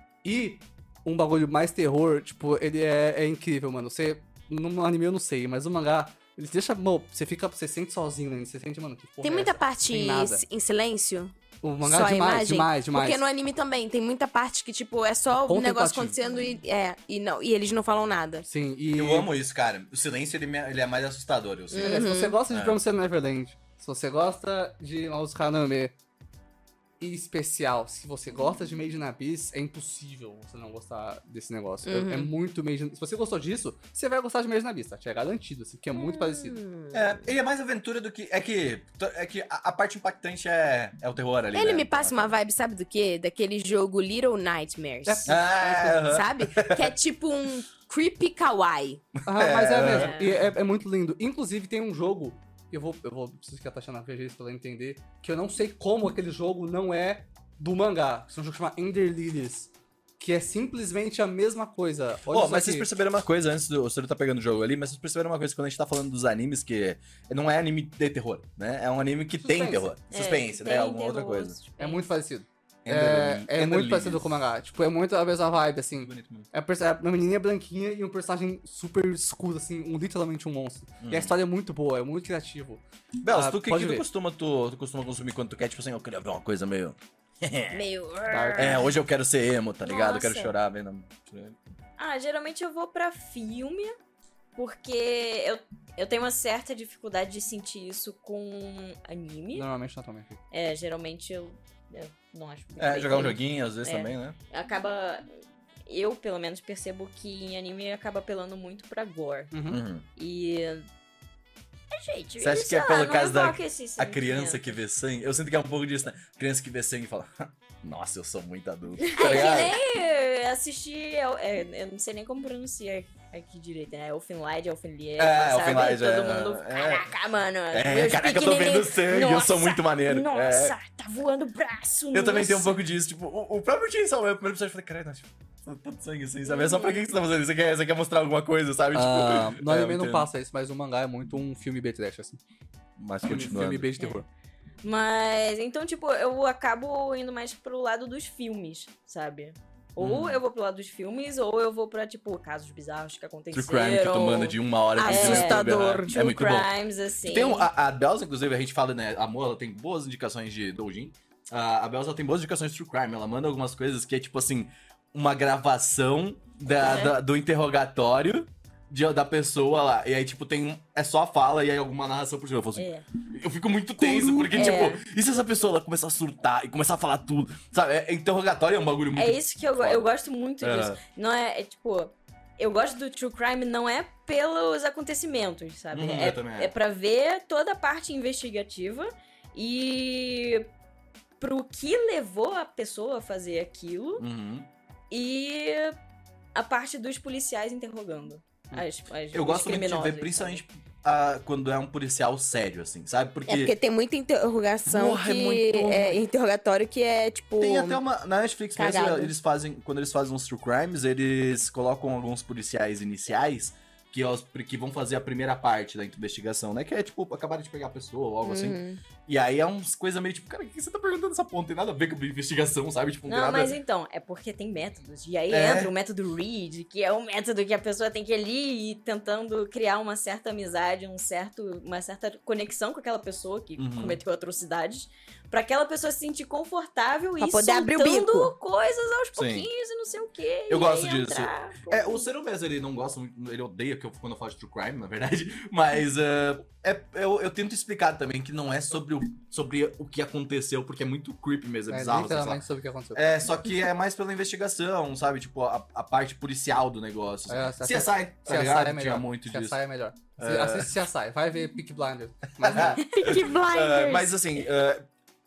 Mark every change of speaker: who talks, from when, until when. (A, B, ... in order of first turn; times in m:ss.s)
0:00.2-0:10.4 A
0:09.2-0:18.5 B
0:11.6-0:13.2 A
0:15.4-0:16.2 A
0:18.5-0:19.3 A
0:18.9-0:22.8 C
0:21.7-0:22.4 B
0:21.8-0:25.9 A
0:27.0-0:36.6 A
0:31.9-0:32.3 B
0:35.9-0:37.2 B
0:36.9-0:42.4 C
0:41.5-0:49.0 B
0:45.0-0:46.0 A
0:45.3-0:47.0 C
0:49.3-1:02.9 A
0:49.3-0:50.2 C
0:49.8-0:50.4 D
1:02.3-1:11.6 C
1:09.4-1:09.9 A
1:10.1-1:12.1 D
1:11.8-1:24.1 A
1:12.8-1:14.3 C
1:16.0-1:16.5 C
1:21.0-1:21.3 C
1:23.2-1:27.8 C
1:27.7-1:28.8 B
1:28.3-1:28.9 A
1:28.6-1:31.6 C
1:29.8-1:30.5 D
1:32.0-1:34.0 D
1:34.6-1:39.7 D
1:39.6-1:40.4 A
1:40.5-1:45.3 D
1:42.8-1:44.4 C
1:45.9-1:49.5 D
1:49.5-1:49.8 A
1:49.7-1:50.0 C
1:50.2-1:50.9 D
1:51.9-1:54.7 D
1:52.4-1:59.8 C
1:59.0-2:12.8 D
2:05.2-2:07.1 C
2:07.7-2:10.8 C
2:12.1-2:20.3 C
2:16.4-2:17.0 D
2:18.9-2:22.4 A
2:23.0-2:23.9 C
2:23.2-2:24.3 A
2:24.8-2:37.7 D
2:30.0-2:30.4 C
2:33.5-2:36.7 C
2:35.0-2:36.1 B
2:37.3-3:00.1 C
2:46.8-2:47.2 D
2:52.8-2:53.0 D
2:54.0-2:55.0 D
2:59.2-3:10.7 D
3:00.6-3:01.0 C
3:05.9-3:06.7 C
3:11.4-3:14.3 D
3:14.2-3:14.7 C
3:15.1-3:16.0 D
3:16.6-3:20.6 D
3:19.3-3:23.7 C
3:23.5-3:28.0 B
3:24.9-3:26.2 C
3:27.6-3:43.8 C
3:28.8-3:29.3 B
3:38.4-3:39.0 B
3:43.3-4:02.3 D
3:45.5-3:45.9 C
3:53.8-3:54.2 C
3:57.4-3:58.5 B
3:59.4-3:59.7 C
4:00.7-4:12.6 C
4:11.9-4:13.2 A
4:13.2-4:19.8 C
4:17.5-4:23.0 A
4:20.4-4:20.9 C
4:22.6-4:25.1 C
4:22.8-4:24.6 B